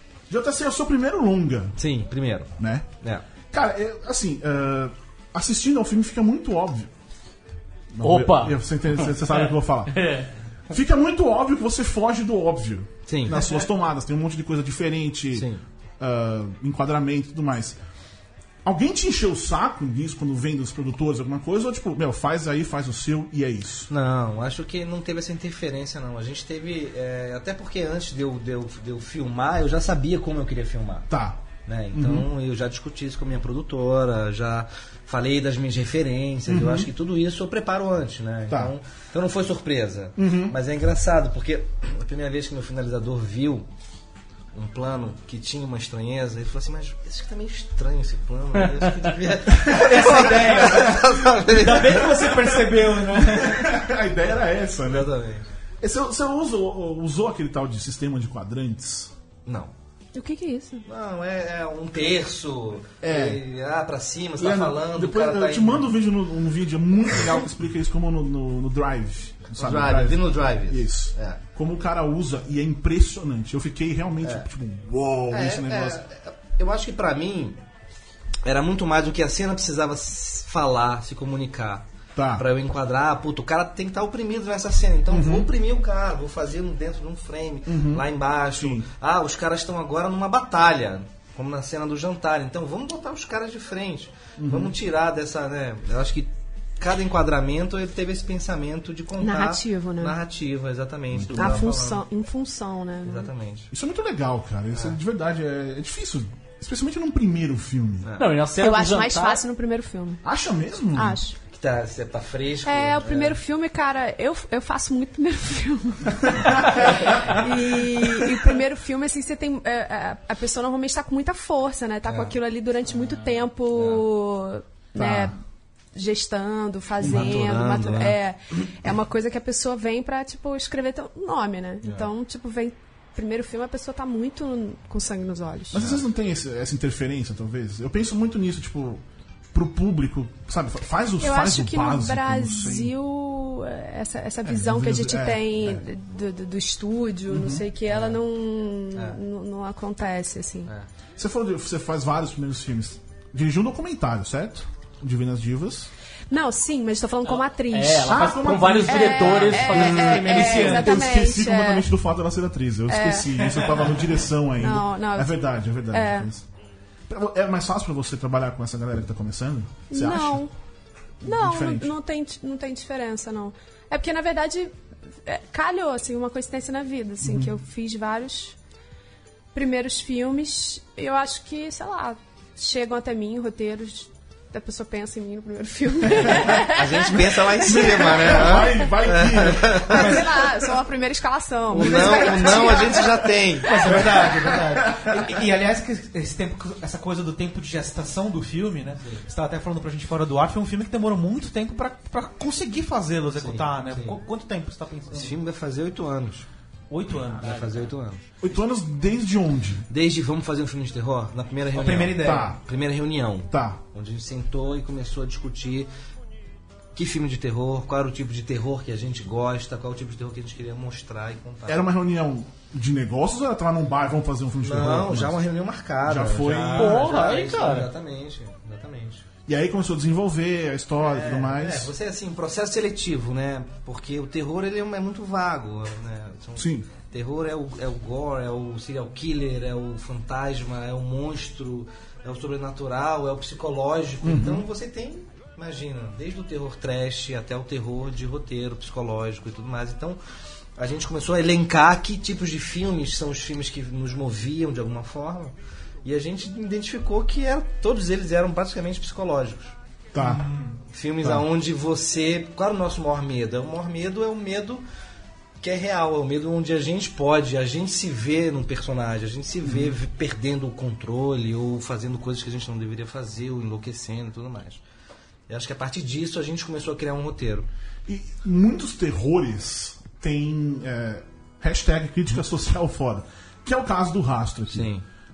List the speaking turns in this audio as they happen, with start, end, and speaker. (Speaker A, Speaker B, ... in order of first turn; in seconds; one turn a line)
Speaker A: 0.3-1.8
Speaker B: 1.8-3.2
Speaker A: 2.6-2.9
Speaker A: 3.5-6.9
Speaker A: 7.9-10.0
Speaker C: 8.0-10.3
Speaker A: 10.7-15.5
Speaker B: 13.1-13.6
Speaker B: 15.3-15.6
Speaker A: 16.0-17.8
Speaker A: 18.6-23.9
Speaker B: 23.9-31.1
Speaker A: 31.1-32.3
Speaker B: 31.7-43.7
Speaker A: 36.5-36.9
Speaker A: 38.5-38.7
Speaker A: 40.2-40.6
Speaker B: 44.5-52.6
Speaker C: 48.6-48.9
Speaker A: 49.5-49.8
Speaker D: 49.7-53.6
Speaker A: 53.2-55.1
Speaker B: 54.3-55.5
Speaker A: 55.8-59.1
Speaker B: 59.5-59.7
Speaker E: 60.1-60.8
Speaker B: 60.9-65.9
Speaker A: 63.0-63.4
Speaker A: 64.4-76.0
Speaker B: 69.6-71.4
Speaker B: 75.3-77.6
Speaker B: 78.4-102.0
Speaker A: 82.2-82.4
Speaker A: 85.1-85.5
Speaker A: 87.7-88.9
Speaker A: 94.4-94.8
Speaker E: 99.2-100.2
Speaker A: 101.1-101.7
Speaker E: 101.3-103.3
Speaker B: 103.0-103.7
Speaker A: 103.7-108.1
Speaker B: 108.0-108.4
Speaker C: 108.2-109.4
Speaker E: 108.6-110.2
Speaker A: 110.2-111.2
Speaker E: 110.9-111.3
Speaker B: 111.5-113.4
Speaker E: 112.7-125.4
Speaker B: 116.8-117.5
Speaker B: 122.1-122.3
Speaker B: 123.7-124.0
Speaker A: 125.0-125.3
Speaker E: 125.9-135.8
Speaker B: 127.0-128.2
Speaker B: 131.8-132.1
Speaker B: 135.7-136.1
Speaker A: 135.7-142.9
Speaker E: 141.2-150.7
Speaker A: 144.4-145.8
Speaker A: 147.3-147.7
Speaker B: 147.9-148.2
Speaker B: 148.9-149.2
Speaker A: 151.2-155.9
Speaker E: 156.3-161.9
Speaker C: 157.2-160.9
Speaker A: 158.1-166.4
Speaker D: 160.2-160.8
Speaker E: 162.9-163.4
Speaker E: 164.6-166.3
Speaker A: 167.1-170.4
Speaker E: 169.9-170.5
Speaker A: 171.2-171.9
Speaker E: 171.2-174.7
Speaker E: 175.2-178.6
Speaker A: 177.2-177.5
Speaker E: 179.5-188.3
Speaker A: 186.2-186.6
Speaker B: 186.2-190.2
Speaker A: 187.6-190.2
Speaker E: 189.9-193.2
Speaker D: 189.9-190.2
Speaker B: 191.7-193.9
Speaker D: 193.6-205.3
Speaker A: 193.9-195.1
Speaker B: 203.3-204.2
Speaker B: 205.1-206.5
Speaker D: 206.9-207.8
Speaker B: 207.3-208.2
Speaker A: 208.4-209.8
Speaker B: 209.9-215.9
Speaker D: 211.7-212.5
Speaker A: 212.2-212.6
Speaker A: 213.5-213.8
Speaker B: 216.9-221.8
Speaker A: 221.7-225.4
Speaker B: 224.6-229.3
Speaker A: 226.0-227.3
Speaker C: 226.7-227.9
Speaker A: 229.5-231.9
Speaker B: 231.0-250.2
Speaker A: 236.6-236.9
Speaker A: 244.2-244.7
Speaker B: 250.8-255.5
Speaker B: 256.0-259.8
Speaker A: 260.1-260.5
Speaker D: 260.2-260.8
Speaker B: 260.9-264.8
Speaker B: 265.6-274.8
Speaker A: 269.6-269.9
Speaker B: 275.5-277.7
Speaker A: 278.1-284.9
Speaker B: 284.7-285.1